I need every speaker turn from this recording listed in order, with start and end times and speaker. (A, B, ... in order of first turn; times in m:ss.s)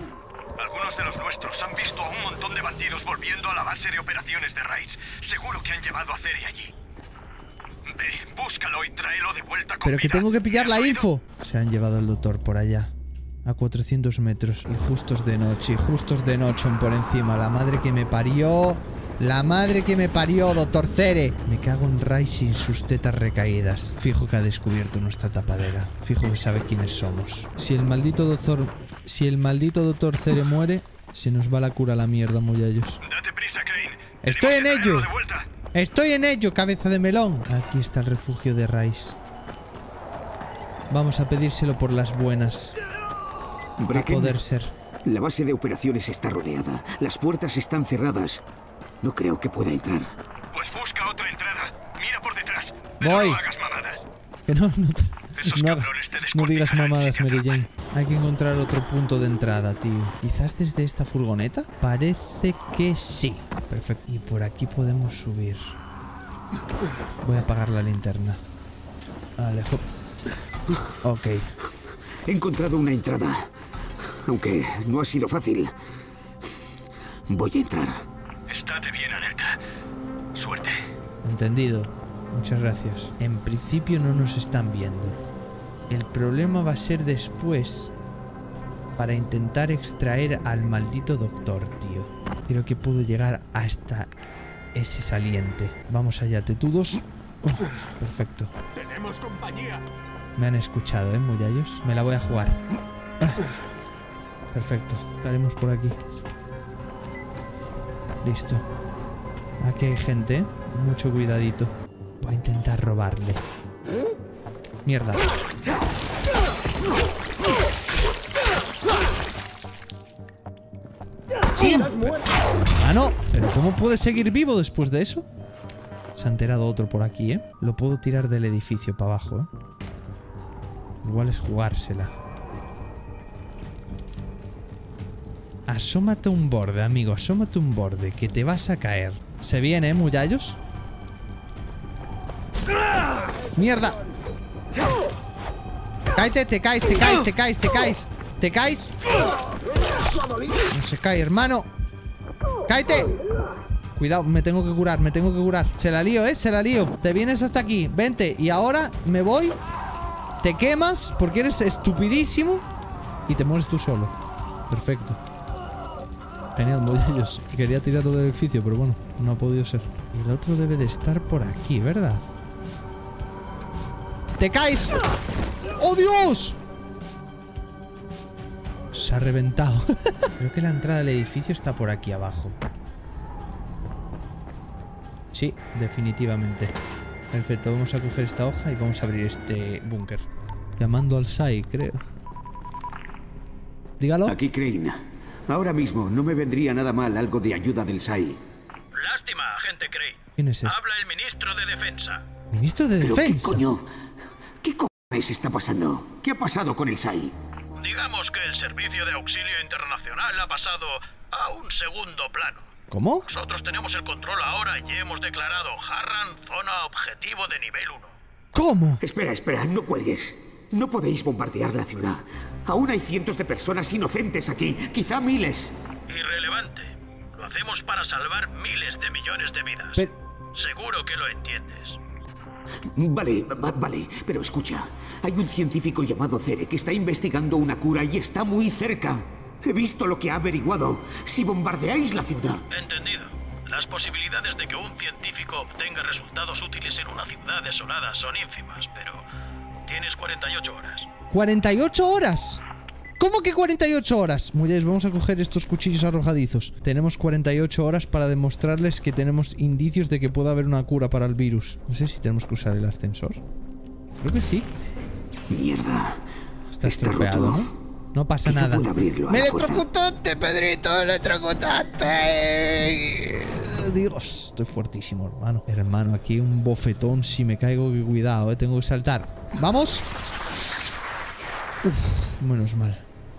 0:00.6-0:06.7 A
0:07.9-0:11.0 A
0:09.8-0:12.9 B
0:13.4-0:33.0 B
0:33.1-0:35.4 A
0:34.2-0:35.1 B
0:35.7-0:39.2 B
0:40.9-0:42.8 B
0:43.8-0:44.4 C
0:43.9-0:44.7 B
0:45.0-0:48.4 C
0:49.0-0:50.1 C
0:50.5-0:54.0 A
0:53.0-0:53.4 B
0:54.5-1:05.7 B
0:55.4-0:57.5 A
1:07.2-1:08.4 B
1:09.4-1:09.8 B
1:11.0-1:11.5 B
1:12.3-1:13.5 C
1:14.2-1:15.7 C
1:17.3-1:18.0 C
1:18.5-1:19.6 A
1:20.4-1:20.8 A
1:21.2-1:25.2 B
1:25.9-1:27.9 B
1:29.0-1:34.1 B
1:34.7-1:38.5 B
1:39.1-1:39.5 A
1:40.4-1:42.6 B
1:44.5-1:46.0 B
1:48.2-1:48.6 B
1:49.6-1:53.4 B
1:54.8-1:55.2 B
2:01.5-2:05.2 B
2:06.2-2:09.5 B
2:11.0-2:12.1 B
2:15.7-2:20.6 B
2:23.6-2:24.0 B
2:26.2-2:29.0 B
2:30.7-2:31.7 B
2:32.7-2:33.1 B
2:33.9-2:39.6 B
2:40.4-2:42.6 B
2:43.3-2:44.1 B
2:44.7-2:45.2 B
2:46.6-2:52.3 B
2:54.4-2:55.0 B
2:55.8-2:56.6 B
2:58.9-3:02.5 B
3:05.3-3:06.7 B
3:07.3-3:10.2 B
3:10.8-3:12.0 B
3:14.0-3:14.4 B
3:14.2-3:18.4 C
3:19.0-3:22.2 A
3:20.4-3:20.8 B
3:22.5-3:23.6 B
3:23.0-3:23.9 C
3:24.6-3:27.3 C
3:27.8-3:32.6 A
3:32.9-3:33.3 B
3:33.3-3:38.1 A
3:38.5-3:39.0 B
3:39.0-3:45.8 C
3:46.1-3:52.0 A
3:52.9-4:02.6 C
4:02.7-4:09.2 A
4:09.9-4:11.0 A
4:11.3-4:12.6 B
4:13.2-4:23.4 B
4:24.2-4:24.7 B
4:25.5-4:26.2 C
4:26.7-4:40.9 B
4:26.8-4:27.7 C
4:28.4-4:29.8 C
4:41.8-4:43.0 B